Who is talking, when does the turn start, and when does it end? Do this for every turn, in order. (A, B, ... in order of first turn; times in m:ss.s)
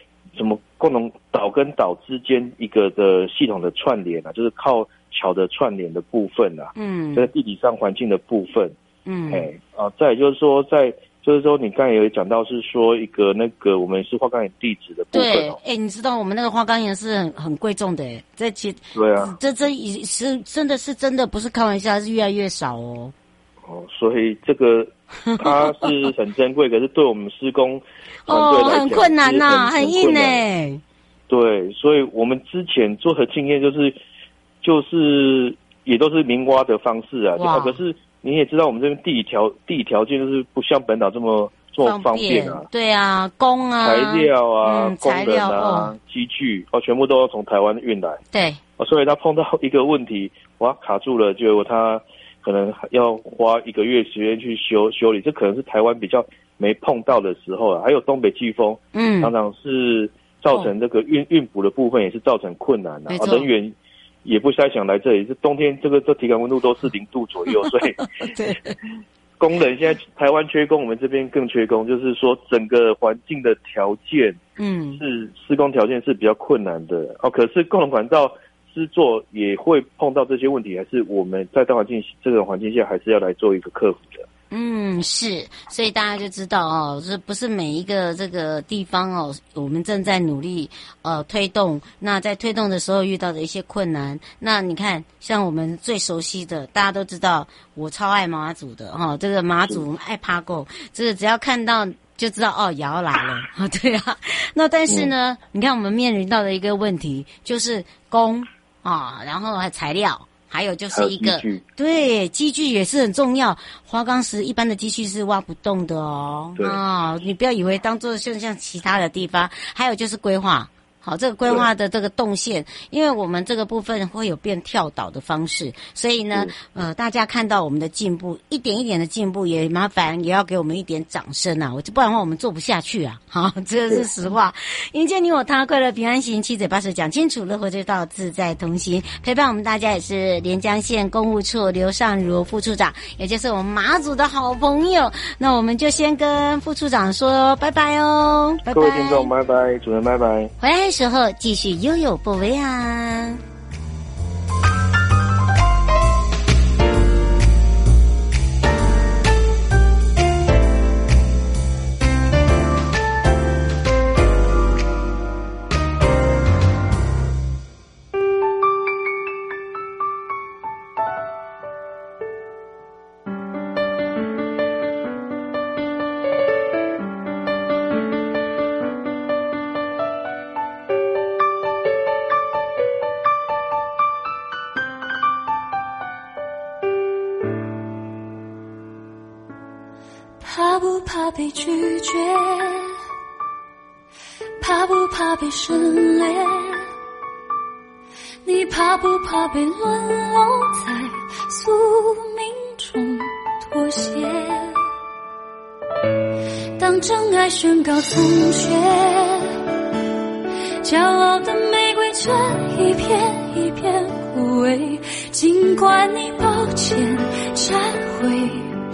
0:00.3-0:08.8 A
0:06.7-0:07.3 B
0:09.0-0:09.5 B
0:09.3-0:15.6 A
0:15.1-0:23.1 B
0:18.9-0:19.4 A
0:23.6-0:30.4 A
0:25.2-0:25.9 B
0:28.2-0:30.8 B
0:31.3-0:33.9 A
0:34.6-0:42.7 A
0:37.4-0:37.8 B
0:41.8-0:45.9 B
0:43.8-0:48.2 A
0:48.3-0:48.6 B
0:48.8-1:08.0 A
0:58.9-0:59.3 B
1:03.1-1:03.5 B
1:08.2-1:08.8 B
1:09.4-1:14.4 A
1:14.6-1:15.0 B
1:15.0-1:24.2 A
1:24.5-2:29.3 B
1:50.9-1:51.6 A
2:28.7-2:30.5 A
2:30.6-2:33.4 B
3:10.4-3:13.0 C
3:14.6-3:16.9 C
3:18.4-3:24.8 C
3:26.8-3:29.6 C
3:30.8-3:38.8 C